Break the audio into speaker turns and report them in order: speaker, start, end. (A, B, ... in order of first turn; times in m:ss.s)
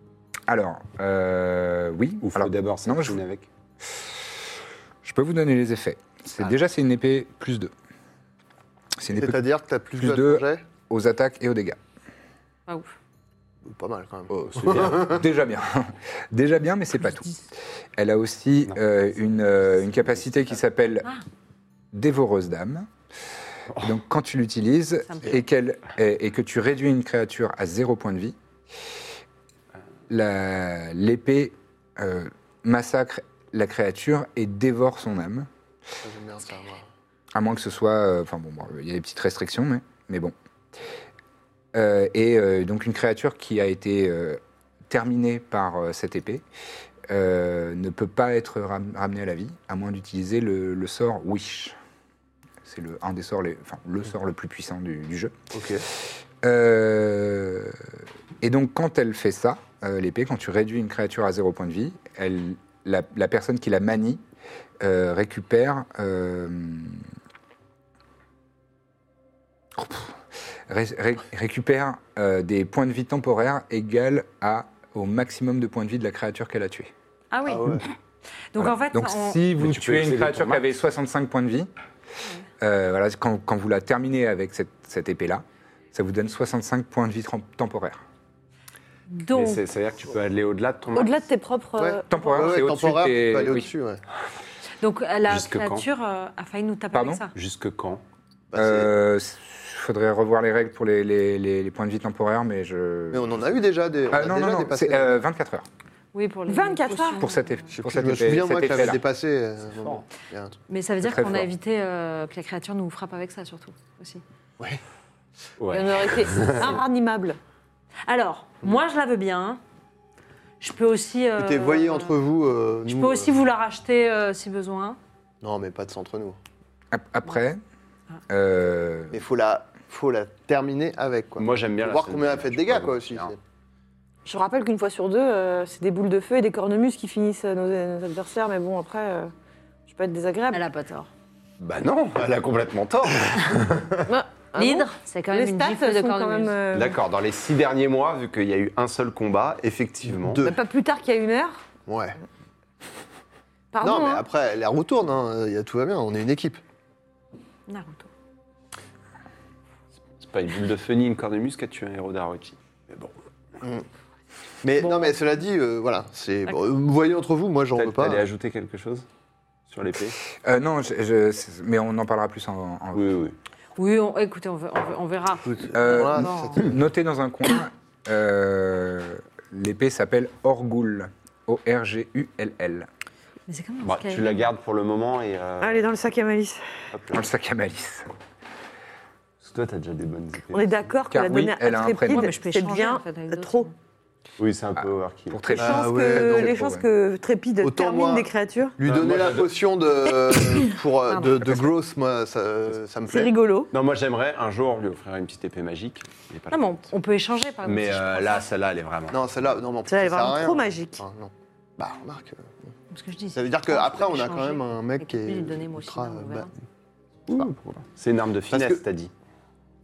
0:00.5-0:03.2 A
0:02.2-0:03.5 B
0:05.0-0:07.7 A
0:09.0-0:09.4 A
0:09.1-0:10.6 C
0:10.0-0:11.8 A
0:13.6-0:15.1 C
0:14.3-0:15.1 B
0:14.9-0:17.4 A
0:18.0-0:21.1 A
0:21.9-0:22.9 A
0:23.7-0:24.0 B
0:23.8-0:28.4 A
0:25.1-0:25.4 D
0:30.1-0:35.5 A
0:36.0-0:36.9 C
0:37.4-0:40.3 A
0:41.7-0:46.4 A
0:47.1-0:51.8 A
0:52.6-0:55.4 A
0:55.5-0:55.8 C
0:56.0-1:04.2 A
1:04.8-1:07.0 A
1:09.8-1:16.9 A
1:17.3-1:17.8 D
1:17.5-1:17.9 C
1:18.5-1:19.4 D
1:18.6-1:21.7 A
1:19.6-1:20.7 B
1:22.6-1:28.0 A
1:29.1-1:29.6 D
1:29.3-1:31.2 B
1:31.0-1:32.5 E
1:31.8-1:34.0 C
1:32.1-1:33.7 A
1:34.8-1:37.3 D
1:35.3-1:35.9 B
1:36.9-1:37.2 A
1:37.3-1:38.0 B
1:38.5-1:38.9 C
1:38.6-1:43.5 A
1:43.1-1:45.1 C
1:44.1-1:45.7 A
1:46.1-1:47.7 D
1:46.5-1:47.2 E
1:47.1-1:49.0 A
1:47.7-1:50.6 C
1:49.8-1:50.0 B
1:50.7-1:54.2 D
1:51.0-1:51.5 A
1:55.6-1:56.8 B
1:55.7-1:57.4 E
1:58.1-1:59.6 D
2:00.6-2:02.2 D
2:01.4-2:03.4 C
2:02.9-2:05.0 D
2:05.4-2:06.4 C
2:06.9-2:07.6 A
2:08.3-2:09.2 A
2:09.1-2:13.4 C
2:11.4-2:13.3 B
2:14.2-2:19.3 E
2:19.9-2:20.6 E
2:20.5-2:21.1 D
2:21.6-2:24.1 B
2:24.1-2:27.0 E
2:24.6-2:26.6 D
2:26.7-2:30.5 B
2:30.2-2:30.6 C
2:30.4-2:31.6 E
2:31.9-2:32.2 C
2:33.7-2:34.2 E
2:33.8-2:36.6 C
2:37.7-2:38.1 D
2:40.2-2:43.2 B
2:44.6-2:48.2 C
2:44.8-2:45.1 D
2:47.8-2:49.1 B
2:49.7-2:50.2 B
2:50.4-2:53.1 A
2:52.9-2:53.4 B
2:53.8-2:56.6 D
2:55.4-2:56.8 C
2:55.7-3:02.9 A
3:03.5-3:04.4 D
3:03.8-3:05.9 B
3:05.6-3:06.6 E
3:06.9-3:07.3 B
3:07.1-3:08.1 A
3:09.4-3:10.9 B
3:10.5-3:13.7 E
3:11.1-3:12.4 A
3:12.1-3:13.7 D
3:14.4-3:15.4 B
3:14.8-3:16.9 A
3:15.6-3:16.5 C
3:15.6-3:18.8 E
3:17.6-3:23.3 C
3:18.8-3:19.5 B
3:21.1-3:21.7 D
3:23.0-3:23.7 E
3:23.7-3:26.9 B
3:26.5-3:28.5 D
3:27.6-3:29.2 B
3:29.1-3:32.7 C
3:29.9-3:31.0 E
3:32.9-3:36.5 D
3:33.3-3:36.5 C
3:37.3-3:39.1 B
3:38.5-3:38.8 C